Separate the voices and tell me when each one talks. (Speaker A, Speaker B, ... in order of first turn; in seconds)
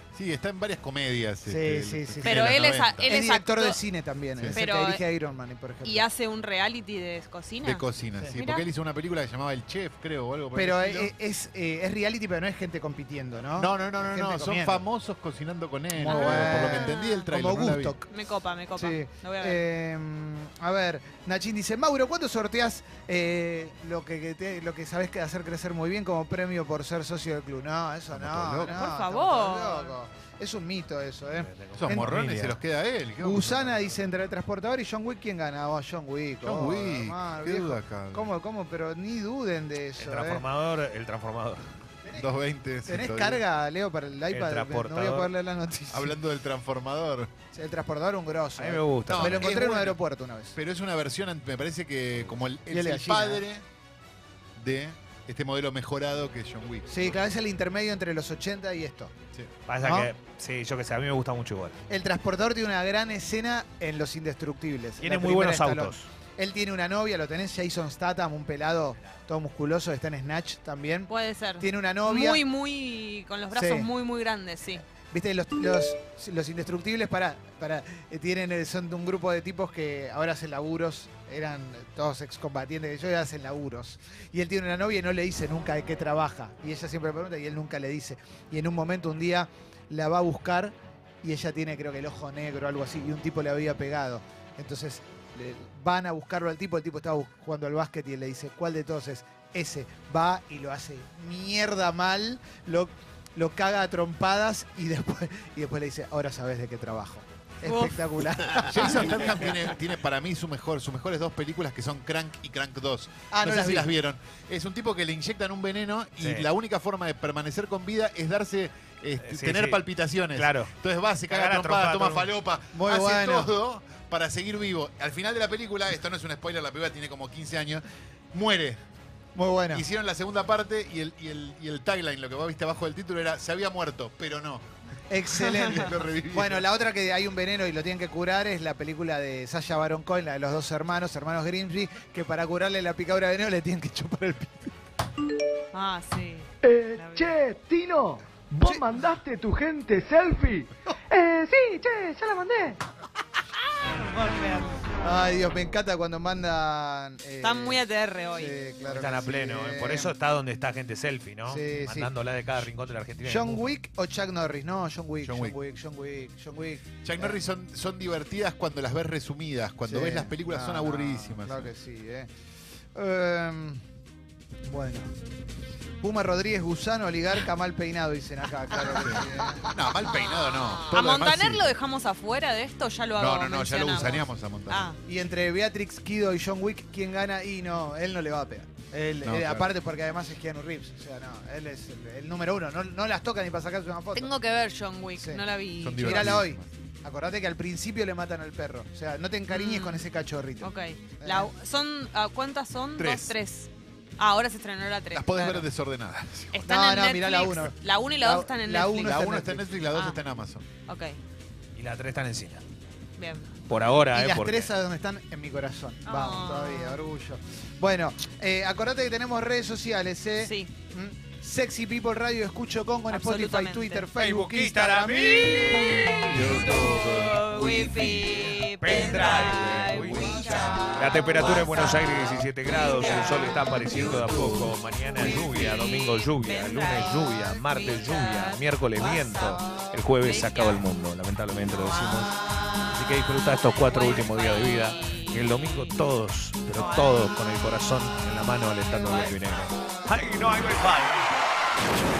Speaker A: 0.1-3.1, 7.6-11.1, 13.5-17.9, 28.1-28.8, 31.8-34.0, 36.4-38.3, 42.1-43.4, 45.9-47.3, 49.1-50.0, 50.5-53.6, 54.5-57.2, 108.5-128.8, 129.7-134.7, 135.4-136.7, 165.2-165.6, 167.0-171.7, 178.9-181.7, 183.2-184.9, 189.2-189.7, 195.8-196.7, 203.0-203.3, 205.1-206.6, 208.9-210.7, 226.3-228.5, 229.6-230.6, 233.9-234.7
Speaker B: 1.5-2.5, 3.1-6.0, 10.5-14.8, 15.9-18.1, 18.8-32.2, 33.2-40.4, 42.9-46.2, 47.5-50.6, 52.7-53.4, 56.9-59.1, 59.8-60.1, 61.9-72.4, 73.5-73.9, 75.1-109.5, 113.3-113.9, 122.7-123.5, 129.3-129.8, 135.1-144.7, 155.0-160.1, 161.4-162.1, 163.2-167.4, 169.8-172.3, 172.9-173.8, 174.6-175.1, 176.0-179.7, 185.0-194.3, 195.1-195.4, 196.0-201.5, 206.6-209.7, 214.1-225.9
Speaker C: 2.2-3.8, 4.5-5.0, 5.8-8.6, 16.1-17.3, 18.1-19.6, 28.6-29.9, 71.1-74.8, 107.6-108.0, 145.7-147.3, 154.1-154.7, 157.4-158.6, 180.1-185.0, 194.1-196.4, 199.5-200.1, 200.6-205.7, 206.5-209.2, 209.9-210.2, 210.8-211.2, 213.2-213.5, 216.1-217.0, 220.4-220.7, 223.1-224.1, 225.4-232.0, 232.7-234.2, 235.2-240.8, 243.8-245.9, 246.7-247.3, 249.0-249.3
Speaker D: 31.3-32.6, 40.0-41.6, 44.3-45.3, 48.5-49.5, 59.7-61.8, 65.0-66.1, 116.2-116.5, 119.2-119.8, 120.3-120.7, 121.3-122.3, 158.9-163.7, 211.8-212.6, 213.7-214.7, 224.2-226.5, 228.7-242.3, 242.9-251.3
Speaker E: 146.6-152.8